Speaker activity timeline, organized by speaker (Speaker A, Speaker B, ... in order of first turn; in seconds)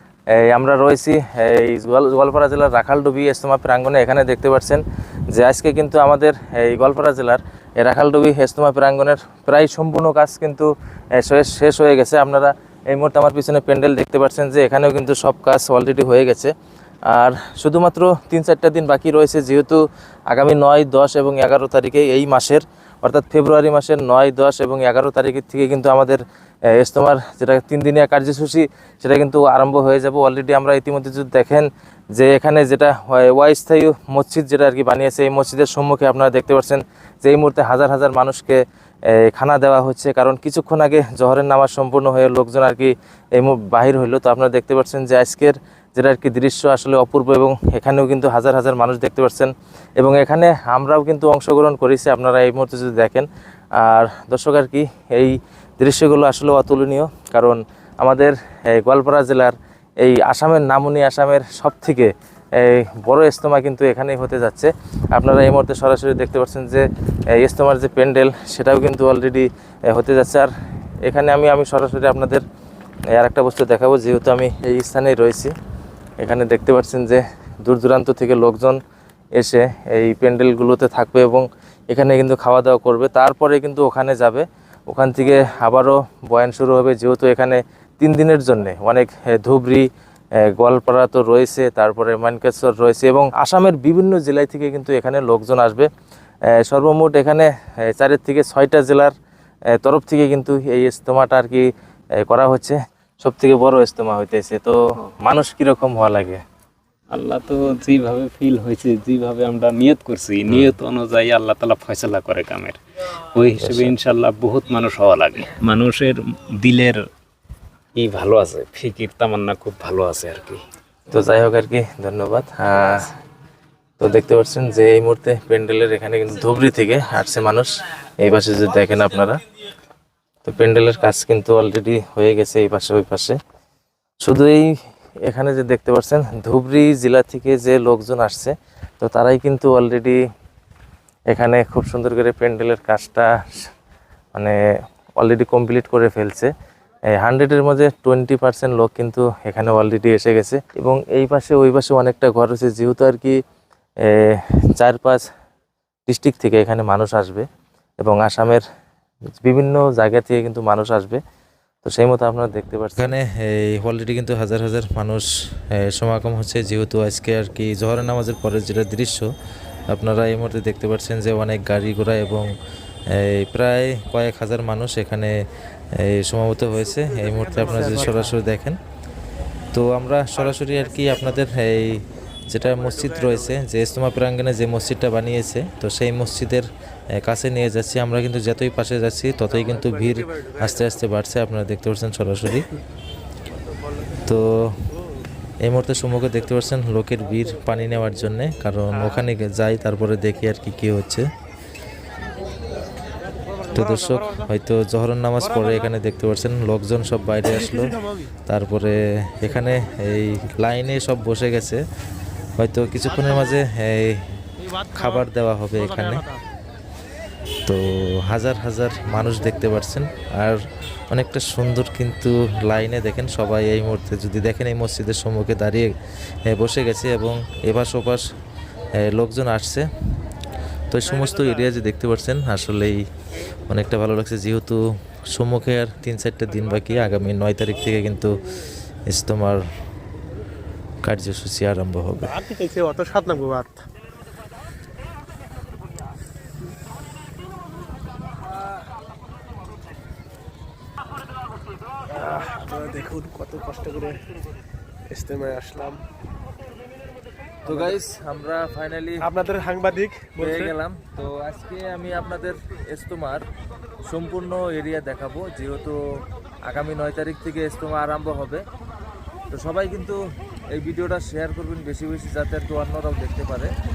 Speaker A: 0.4-4.8, 5.3-16.5, 17.1-26.2, 26.8-53.3, 53.8-70.5, 71.0-72.4, 73.2-75.5, 76.2-78.8, 79.4-89.9, 90.4-95.9, 96.5-99.1, 99.7-106.4, 110.5-110.8, 113.6-113.9, 121.1-123.1, 124.0-129.4, 130.4-133.4, 134.2-134.7, 135.3-140.2, 141.3-143.7, 145.2-146.5, 147.1-153.4, 154.0-155.2, 156.1-157.5, 158.0-158.7, 159.4-161.2, 161.8-169.3, 169.9-172.5, 173.1-175.3, 176.0-178.8, 179.7-192.7, 194.2-194.7, 195.6-201.3, 203.7-211.8, 212.6-214.2, 214.9-216.2, 217.7-220.6, 221.1-225.9, 226.5-228.2, 229.0-229.9, 230.9-233.0, 233.7-234.8, 235.3-238.3, 239.1-239.6, 241.0-242.4, 257.7-259.2, 260.4-263.4, 264.1-266.0, 266.7-268.6, 269.5-270.2, 270.7-273.7
Speaker B: 107.1-112.8, 113.3-117.1, 118.0-120.6
Speaker C: 177.6-178.3, 180.4-181.1, 182.7-183.6, 189.7-190.6, 193.7-194.0, 203.5-204.5, 207.5-208.3, 214.8-215.2, 215.8-216.4, 242.2-243.8, 252.1-254.2, 255.1-256.0, 257.7-258.0, 259.2-260.8